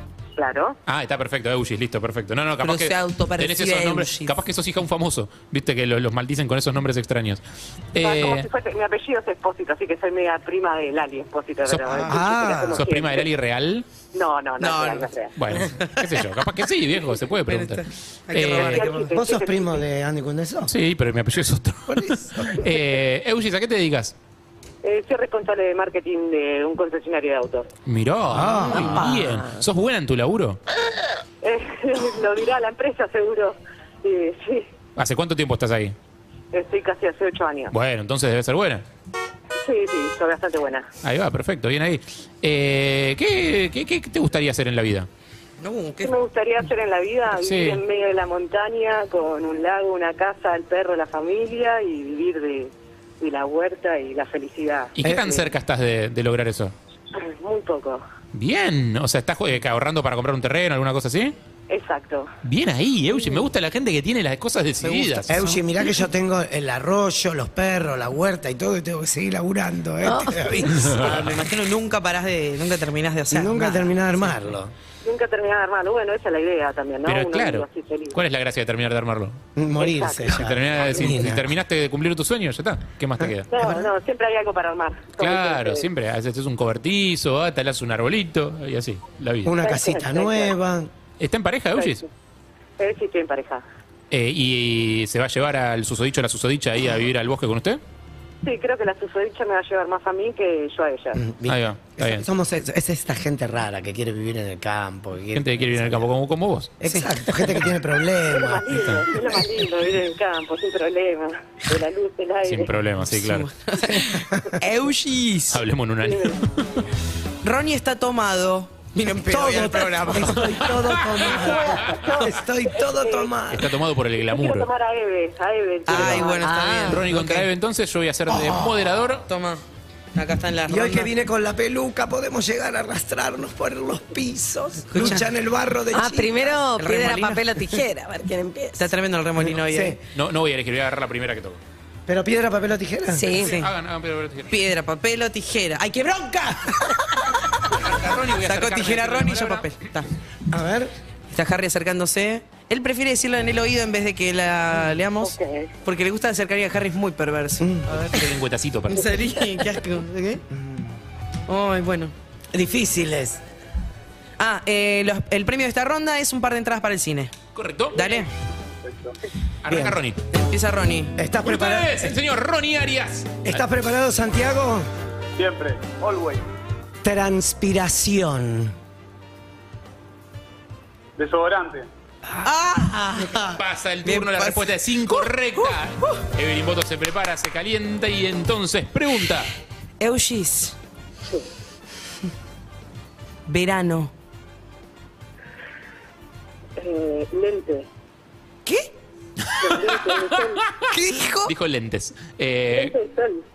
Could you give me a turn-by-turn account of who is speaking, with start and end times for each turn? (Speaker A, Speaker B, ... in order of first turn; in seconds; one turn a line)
Speaker A: 0.3-0.8
Speaker B: 0.8-7.4
Speaker C: 2.6-4.3
Speaker B: 7.9-8.5
Speaker A: 8.0-13.3
Speaker B: 11.7-12.1
Speaker D: 12.0-12.8
Speaker B: 12.7-13.8
Speaker A: 14.1-15.3
Speaker C: 14.6-15.1
Speaker B: 15.3-18.8
Speaker C: 15.7-16.2
Speaker C: 17.5-19.1
Speaker A: 18.5-19.8
Speaker D: 18.9-20.7
Speaker B: 20.7-24.1
Speaker D: 21.9-22.6
Speaker A: 24.8-27.7
Speaker B: 27.9-30.6
Speaker D: 28.3-29.2
Speaker E: 29.0-29.4
Speaker A: 31.4-34.7
Speaker B: 35.0-35.9
Speaker A: 36.5-37.7
Speaker B: 37.7-38.8
Speaker A: 39.6-40.9
Speaker B: 41.0-45.1
Speaker C: 45.6-46.1
Speaker A: 46.0-55.2
Speaker B: 47.3-47.8
Speaker B: 54.9-56.7
Speaker D: 55.0-55.5
Speaker A: 57.1-58.0
Speaker B: 58.3-61.3
Speaker A: 61.7-62.3
Speaker B: 62.4-65.4
Speaker C: 64.8-65.6
Speaker D: 65.3-71.3
Speaker E: 70.0-70.5
Speaker C: 70.8-74.0
Speaker B: 70.9-71.3
Speaker D: 73.3-74.7
Speaker A: 75.0-78.2
Speaker B: 77.0-79.4
Speaker D: 79.5-81.5
Speaker A: 79.7-80.4
Speaker B: 80.3-83.5
Speaker A: 83.5-85.9
Speaker D: 83.5-83.9
Speaker B: 85.2-89.5
Speaker D: 89.4-90.9
Speaker A: 89.5-90.6
Speaker B: 91.2-92.0
Speaker A: 91.7-92.1
Speaker A: 92.8-93.6
Speaker B: 94.1-97.8
Speaker A: 98.4-101.2
Speaker D: 101.2-106.0
Speaker B: 101.5-102.3
Speaker B: 105.3-106.8
Speaker D: 106.8-109.0
Speaker C: 106.8-107.5
Speaker A: 108.3-112.7
Speaker B: 112.4-113.5
Speaker C: 113.0-115.6
Speaker D: 113.9-114.5
Speaker B: 115.5-116.8
Speaker A: 116.0-116.4
Speaker C: 117.4-121.5
Speaker D: 119.2-123.7
Speaker B: 120.9-121.9
Speaker A: 121.4-123.4
Speaker B: 123.5-124.7
Speaker A: 124.1-126.4
Speaker C: 125.9-127.5
Speaker B: 125.9-126.3
Speaker E: 126.3-127.0
Speaker B: 126.9-129.2
Speaker C: 128.3-128.6
Speaker C: 129.3-129.6
Speaker C: 130.1-131.1
Speaker D: 130.7-136.7
Speaker C: 134.9-135.2
Speaker E: 135.9-138.9
Speaker C: 136.8-137.8
Speaker C: 138.8-140.0
Speaker D: 139.5-140.0
Speaker B: 140.1-141.6
Speaker D: 142.1-143.3
Speaker E: 143.1-143.5
Speaker C: 143.4-143.7
Speaker B: 143.4-144.5
Speaker C: 144.5-146.8
Speaker B: 147.7-149.7
Speaker C: 148.3-150.1
Speaker D: 150.5-150.9
Speaker C: 151.3-158.3
Speaker A: 155.2-155.7
Speaker D: 157.6-157.8
Speaker B: 158.1-159.2
Speaker C: 158.9-160.4
Speaker D: 160.5-160.9
Speaker C: 161.5-162.1
Speaker D: 162.5-163.4
Speaker C: 164.4-167.3
Speaker B: 167.5-168.0
Speaker C: 167.9-168.3
Speaker F: 168.8-169.2
Speaker B: 169.6-170.2
Speaker D: 169.7-170.0
Speaker C: 170.3-171.2
Speaker D: 171.2-172.2
Speaker B: 171.4-173.6
Speaker D: 173.4-174.9
Speaker F: 175.4-176.4
Speaker D: 177.0-178.7
Speaker F: 181.2-181.9
Speaker C: 182.3-186.2
Speaker B: 183.6-189.5
Speaker C: 190.0-190.8
Speaker C: 193.5-194.1
Speaker A: 196.8-197.9
Speaker B: 199.4-199.8
Speaker A: 199.6-200.6
Speaker B: 200.4-200.9
Speaker C: 200.9-201.5
Speaker B: 201.4-203.0
Speaker A: 202.7-203.4